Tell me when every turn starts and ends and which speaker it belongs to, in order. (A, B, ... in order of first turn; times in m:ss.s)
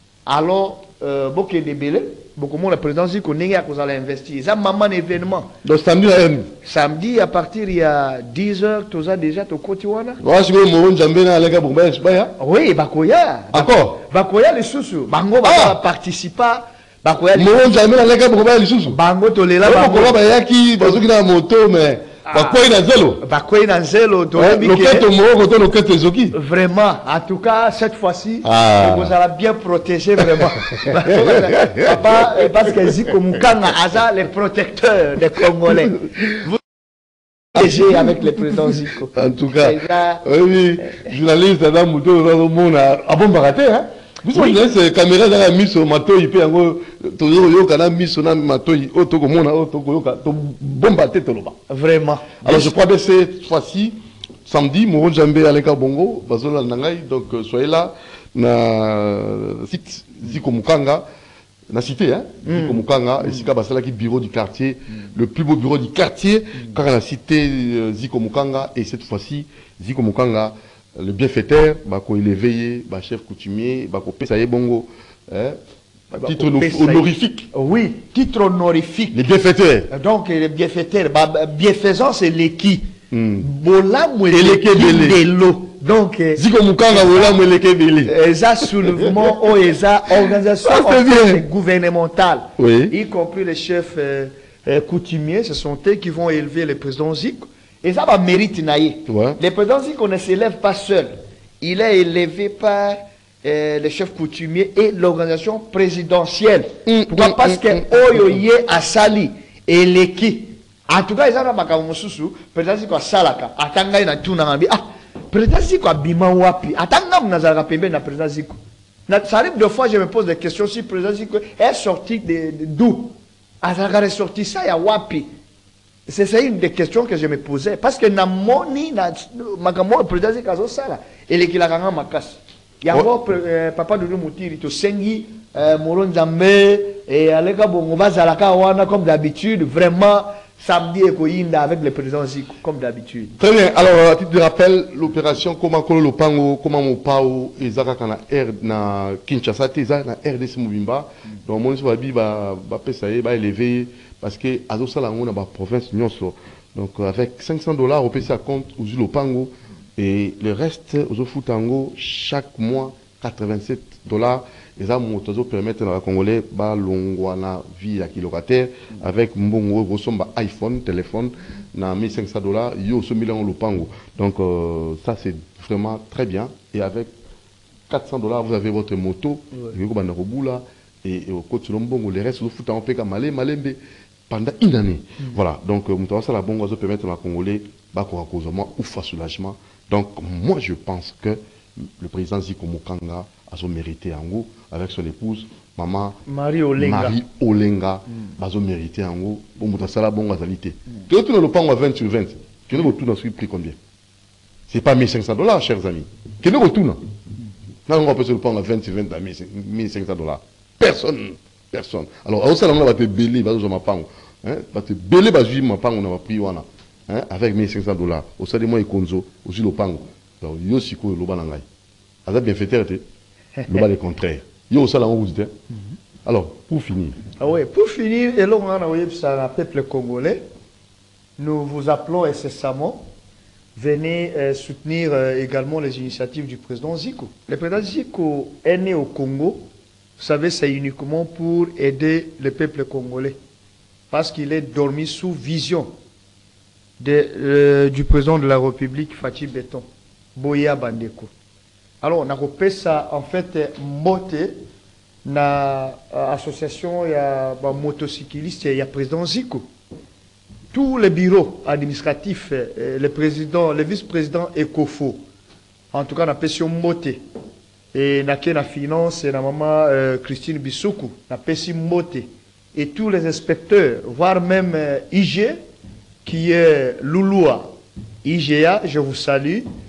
0:00.3-0:05.5 A
0:05.6-0:06.5 B
0:06.6-0:10.2 A
0:10.2-0:12.3 B
0:12.4-0:17.7 A
0:13.5-0:14.0 B
0:15.4-0:15.8 B
0:17.3-0:19.0 B
0:18.9-0:20.2 A
0:19.6-0:23.2 B
0:22.3-0:22.6 A
0:23.2-0:25.1 A
0:24.4-0:26.4 B
0:26.3-0:36.6 A
0:28.4-0:29.1 B
0:30.8-0:32.0 B
0:37.6-0:40.3 A
0:37.6-0:38.1 B
0:39.2-0:51.6 B
0:40.8-0:41.1 A
0:44.3-0:44.6 A
0:51.7-0:52.7 A
0:52.4-0:54.0 B
0:54.5-1:01.0 B
1:01.7-1:15.6 B
1:02.4-1:03.5 A
1:16.1-1:19.2 A
1:16.2-1:17.5 B
1:19.1-1:19.9 B
1:19.9-1:22.9 A
1:23.1-1:23.5 B
1:23.4-1:27.4 A
1:24.3-1:25.2 B
1:26.4-1:29.3 B
1:28.0-2:05.3 A
1:30.6-1:31.4 B
1:32.6-1:33.0 B
1:39.1-1:39.4 B
1:46.9-1:48.3 B
2:06.1-2:23.4 A
2:23.4-2:57.1 B
2:57.9-3:16.2 B
3:16.3-3:17.2 A
3:16.8-3:23.8 B
3:24.7-3:27.0 B
3:27.9-3:41.6 B
3:42.3-3:43.0 B
3:43.6-3:43.9 A
3:43.7-3:45.5 B
3:46.2-3:47.2 B
3:47.4-3:50.4 A
3:51.4-3:53.1 A
3:53.8-3:59.7 A
4:00.2-4:03.4 A
4:04.1-4:05.9 A
4:07.0-4:11.3 A
4:12.0-4:14.6 A
4:15.2-4:19.7 A
4:20.7-4:25.2 A
4:25.9-4:27.2 A
4:27.9-4:35.6 A
4:36.2-4:39.7 A